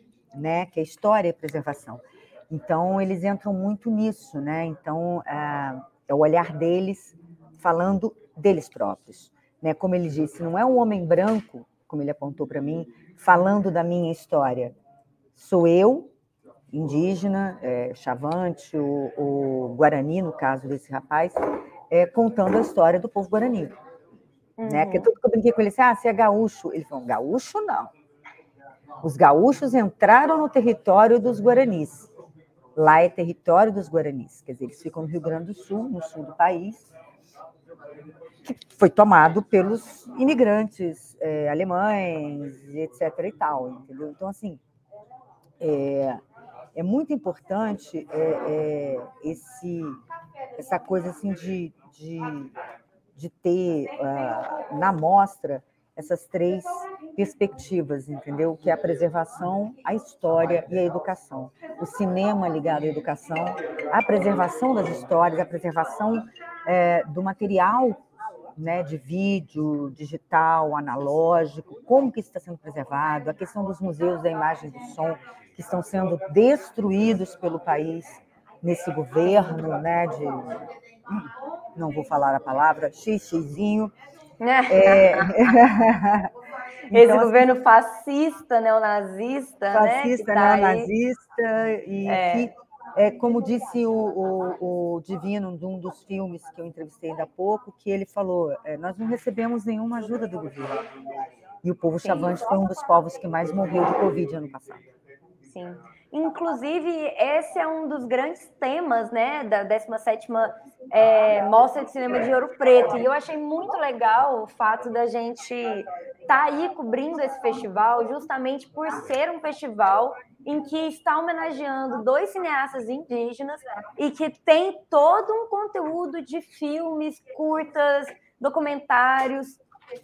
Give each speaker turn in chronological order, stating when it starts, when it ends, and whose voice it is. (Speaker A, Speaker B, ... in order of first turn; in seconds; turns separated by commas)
Speaker A: 0.3-14.8, Speaker A: 15.3-16.1, Speaker A: 16.7-23.7, Speaker B: 24.6-25.1, Speaker A: 24.7-27.9, Speaker A: 29.0-32.1, Speaker A: 32.8-36.9, Speaker A: 38.4-44.6, Speaker A: 45.6-46.2, Speaker A: 46.8-50.0, Speaker A: 50.6-52.5, Speaker A: 53.1-68.0, Speaker A: 68.6-80.7, Speaker A: 81.8-83.9, Speaker B: 84.4-85.6, Speaker A: 84.7-86.3, Speaker A: 86.9-87.6, Speaker B: 86.9-90.9, Speaker A: 89.7-100.8, Speaker B: 92.1-92.5, Speaker A: 101.6-104.8, Speaker B: 102.0-102.4, Speaker B: 105.5-129.6